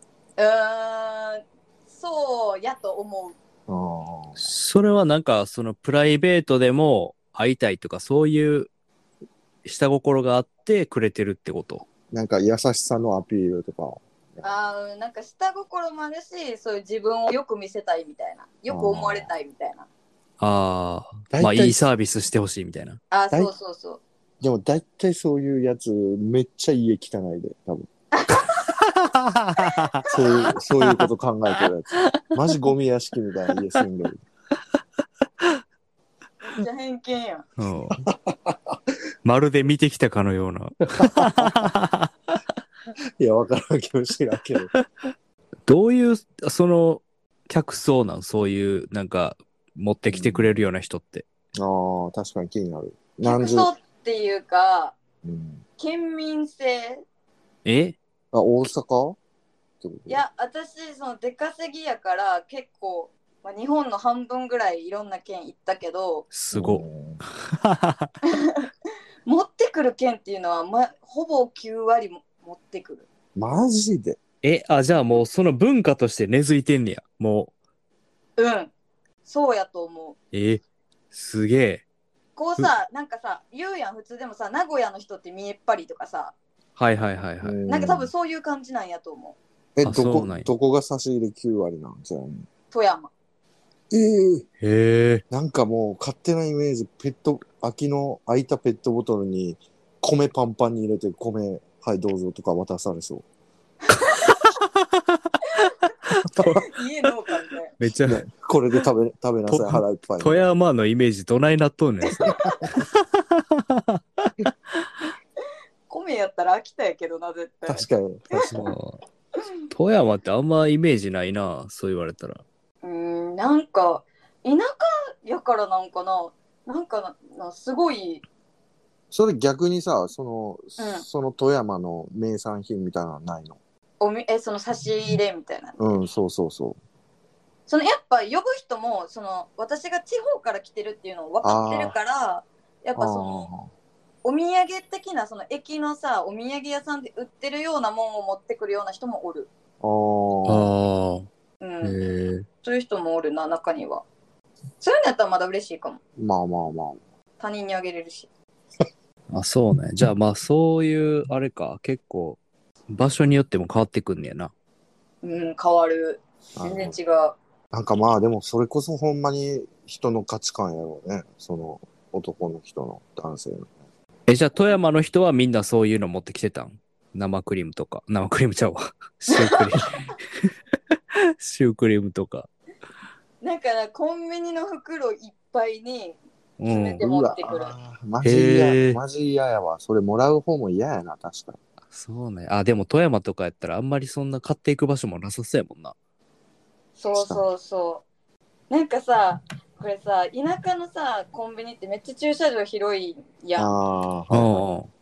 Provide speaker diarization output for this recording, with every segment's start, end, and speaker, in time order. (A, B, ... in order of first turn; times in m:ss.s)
0:00.4-0:03.4 A
0:03.7-0:04.5 B
0:04.4-0:08.7 C
0:09.6-0:11.9 C
0:12.1-0:14.5 B
0:14.4-0:19.9 A
0:18.7-0:19.3 B
0:20.4-0:23.0 C
0:21.3-0:21.9 B
0:23.1-0:24.0 A
0:24.4-0:27.9 B
0:28.1-0:28.7 A
0:28.8-0:30.0 C
0:29.7-0:30.5 A
0:30.1-0:34.2 B
0:36.4-0:37.5 A
0:37.6-0:38.0 C
0:38.0-0:38.8 B
0:39.2-0:42.1 C
0:41.0-0:41.7 B
0:43.2-0:44.7 B
0:45.7-0:51.3 C
0:50.1-0:50.6 B
0:51.6-0:53.7 B
0:53.2-0:55.0 A
0:55.2-0:55.6 B
0:55.8-0:57.0 A
0:57.6-0:58.0 C
0:58.3-0:59.2 B
0:59.8-1:00.2 B
1:00.1-1:06.3 A
1:06.3-1:06.8 C
1:06.5-1:07.2 B
1:07.5-1:08.1 C
1:08.3-1:08.7 A
1:09.3-1:13.1 A
1:13.4-1:14.2 B
1:14.4-1:17.5 C
1:18.4-1:18.7 A
1:19.2-1:20.2 A
1:20.3-1:21.8 C
1:22.4-1:26.3 A
1:26.8-1:27.6 C
1:27.4-1:28.1 B
1:27.7-1:29.4 A
1:29.8-1:32.5 B
1:29.8-1:30.5 C
1:32.7-1:33.1 A
1:33.9-1:34.5 B
1:34.6-1:35.2 C
1:35.3-1:43.2 B
1:43.9-1:44.2 A
1:43.9-1:46.7 C
1:46.4-1:47.8 A
1:47.8-1:48.2 C
1:48.1-1:50.5 B
1:49.5-1:54.9 C
1:52.3-1:52.6 A
1:52.3-1:52.7 B
1:55.9-1:58.5 A
1:57.7-1:58.7 B
1:58.6-1:59.0 C
1:59.7-2:02.4 C
2:02.8-2:08.2 A
2:09.1-2:13.6 B
2:10.8-2:11.0 A
2:14.0-2:15.8 A
2:15.8-2:16.8 B
2:17.7-2:23.5 A
2:21.4-2:22.0 B
2:23.0-2:23.7 B
2:24.2-2:29.5 A
2:29.8-2:30.7 B
2:30.5-2:31.3 C
2:31.6-2:32.0 A
2:31.8-2:32.5 C
2:32.6-2:34.0 A
2:34.8-2:36.0 A
2:36.2-2:37.0 B
2:37.4-2:38.3 A
2:39.3-2:44.5 C
2:45.2-2:47.4 A
2:46.6-2:47.0 B
2:47.7-2:53.7 B
2:54.3-3:00.5 C
2:59.3-3:00.0 A
3:01.2-3:02.5 C
3:03.4-3:07.8 A
3:06.6-3:07.0 C
3:07.0-3:11.6 B
3:08.2-3:09.0 C
3:11.9-3:16.0 C
3:17.0-3:18.0 A
3:17.2-3:17.4 B
3:18.7-3:23.8 A
3:23.6-3:24.6 B
3:24.3-3:24.9 C